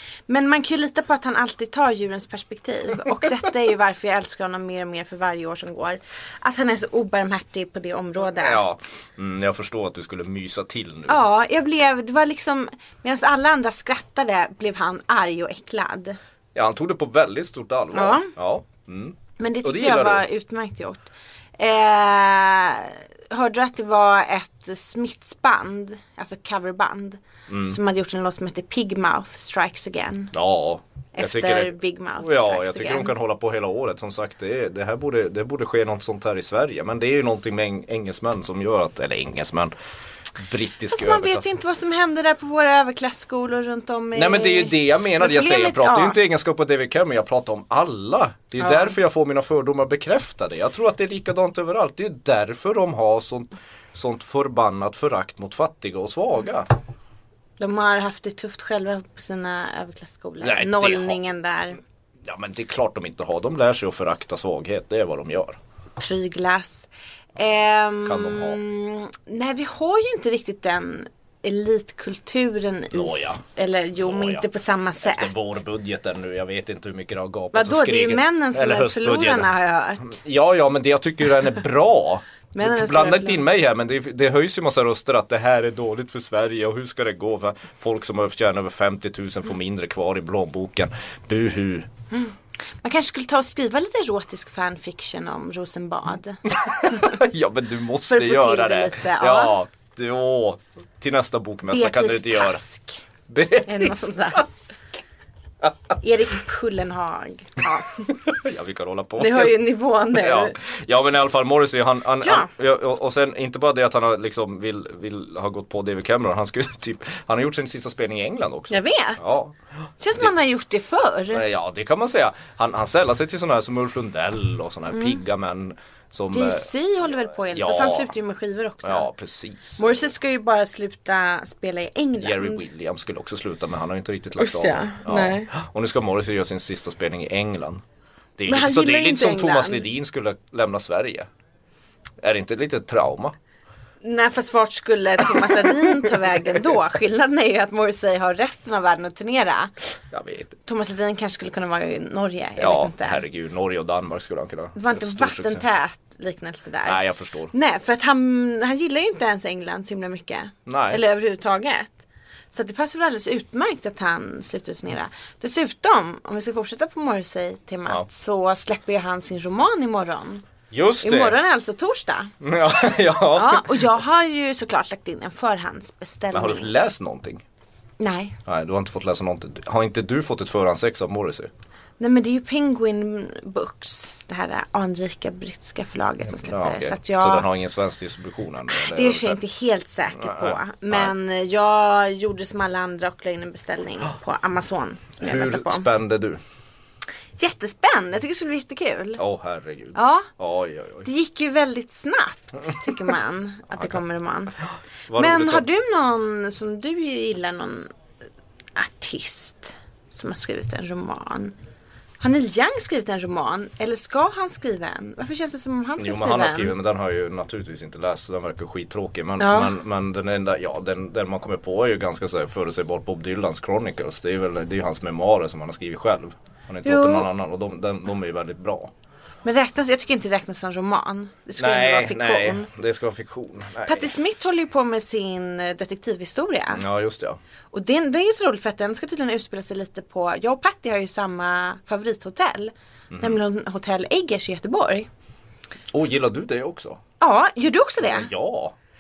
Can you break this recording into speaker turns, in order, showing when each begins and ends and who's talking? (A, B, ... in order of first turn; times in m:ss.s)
0:00.3-0:08.8 A
0:08.4-0:11.2 B
0:11.1-0:16.2 A
0:16.6-0:20.2 B
0:17.9-0:18.3 A
0:19.4-0:30.3 A
0:27.5-0:27.8 B
0:30.3-0:39.7 B
0:31.2-0:33.1 A
0:40.4-0:41.5 B
0:40.9-0:46.2 A
0:44.2-0:56.7 B
0:48.6-0:48.9 A
0:57.6-1:01.8 A
1:00.4-1:01.2 B
1:02.2-1:05.6 B
1:06.0-1:15.5 A
1:08.0-1:08.6 B
1:12.9-1:13.4 B
1:14.0-1:14.5 B
1:15.0-1:19.5 B
1:17.5-1:20.2 A
1:20.0-1:31.9 B
1:22.5-1:23.4 A
1:32.1-1:37.2 A
1:36.5-1:42.6 B
1:38.1-1:39.6 A
1:41.7-1:43.0 A
1:43.3-1:44.4 B
1:43.6-1:44.8 A
1:46.0-1:48.1 A
1:48.2-1:49.6 B
1:49.2-1:50.6 A
1:50.1-2:00.3 B
1:52.2-1:52.5 A
1:58.7-1:59.3 A
2:00.0-2:01.4 A
2:01.3-2:06.7 B
2:04.9-2:05.2 A
2:06.3-2:09.1 A
2:07.5-2:08.1 B
2:08.8-2:10.1 B
2:09.8-2:12.7 A
2:12.2-2:17.8 B
2:14.4-2:15.5 A
2:18.4-2:21.3 B
2:18.5-2:19.8 A
2:22.2-2:23.4 B
2:24.0-2:29.7 A
2:25.9-2:26.2 B
2:30.1-2:30.6 B
2:30.7-2:33.2 A
2:32.6-2:35.6 B
2:34.8-2:37.0 A
2:36.8-2:37.5 B
2:37.5-2:50.4 A
2:40.7-2:41.0 B
2:50.7-2:51.4 B
2:51.0-2:52.3 A
2:52.4-2:53.9 B
2:53.3-2:56.7 A
2:56.3-2:57.4 B
2:58.0-2:58.4 A
2:58.4-3:01.5 B
3:02.0-3:07.5 A
3:06.3-3:09.4 B
3:08.7-3:15.9 A
3:10.2-3:11.1 B
3:15.2-3:16.4 B
3:17.4-3:19.2 A
3:19.2-3:21.1 B
3:19.9-3:20.3 A
3:21.0-3:24.6 A
3:24.6-3:25.7 B
3:25.2-3:27.9 A
3:28.8-3:31.5 A
3:32.2-3:36.7 A
3:36.0-3:48.9 B
3:39.4-3:39.7 A
3:46.8-3:47.3 A
3:49.4-3:52.7 A
3:51.6-3:54.1 B
3:53.9-3:56.8 A
3:56.7-3:57.4 B
3:57.7-4:05.1 A
4:03.1-4:03.4 B
4:05.9-4:07.0 B
4:07.2-4:08.3 A
4:08.0-4:08.8 B